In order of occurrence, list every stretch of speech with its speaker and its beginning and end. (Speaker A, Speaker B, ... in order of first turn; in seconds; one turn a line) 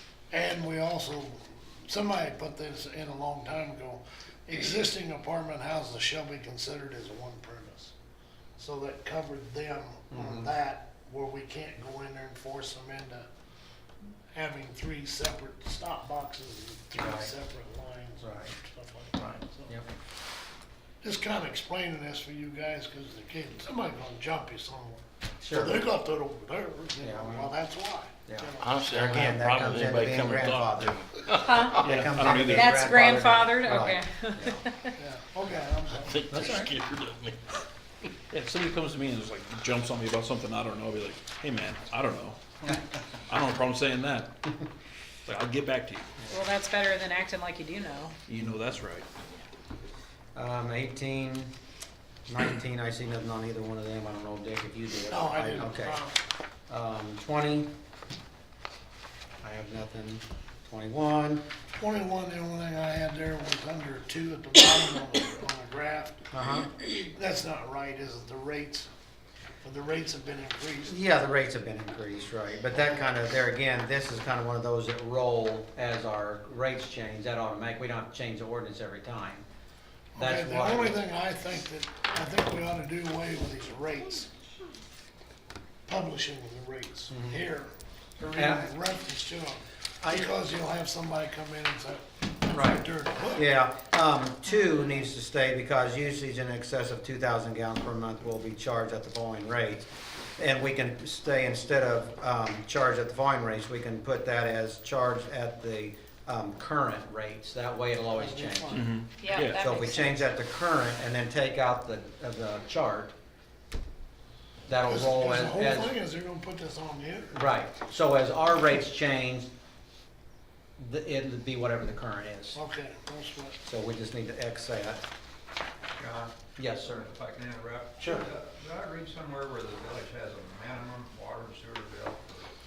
Speaker A: 0.3-7.9
Speaker A: 8.6-13.2
Speaker B: 10.1-10.5
Speaker A: 14.3-19.8
Speaker B: 17.0-17.3
Speaker B: 18.2-18.5
Speaker B: 19.2-19.9
Speaker A: 21.0-29.2
Speaker B: 25.4-25.8
Speaker B: 27.0-27.5
Speaker B: 28.2-31.0
Speaker C: 28.6-31.8
Speaker D: 31.4-34.9
Speaker B: 31.6-34.6
Speaker E: 31.8-32.8
Speaker E: 33.7-33.9
Speaker A: 35.0-36.2
Speaker C: 36.0-38.1
Speaker B: 36.3-36.7
Speaker E: 38.3-44.3
Speaker E: 45.2-46.3
Speaker D: 46.3-48.2
Speaker E: 48.3-49.1
Speaker B: 50.3-51.5
Speaker B: 52.3-56.0
Speaker A: 55.1-56.2
Speaker B: 56.7-57.7
Speaker B: 59.4-61.4
Speaker A: 61.8-66.2
Speaker B: 66.3-66.7
Speaker A: 67.1-68.9
Speaker A: 69.6-70.9
Speaker B: 70.9-79.4
Speaker A: 80.2-84.3
Speaker B: 80.2-81.0
Speaker A: 85.9-93.4
Speaker B: 87.1-87.4
Speaker B: 88.2-88.7
Speaker B: 92.5-92.8
Speaker B: 93.3-108.8
Speaker A: 108.1-108.9
Speaker E: 108.7-109.7
Speaker D: 109.2-110.2
Speaker B: 109.5-113.1
Speaker B: 114.7-115.9
Speaker A: 114.9-117.4
Speaker B: 117.3-119.5
Speaker B: 120.8-122.6
Speaker A: 122.5-123.6
Speaker B: 123.7-125.0
Speaker F: 126.0-132.5
Speaker B: 126.6-127.1
Speaker B: 128.0-128.2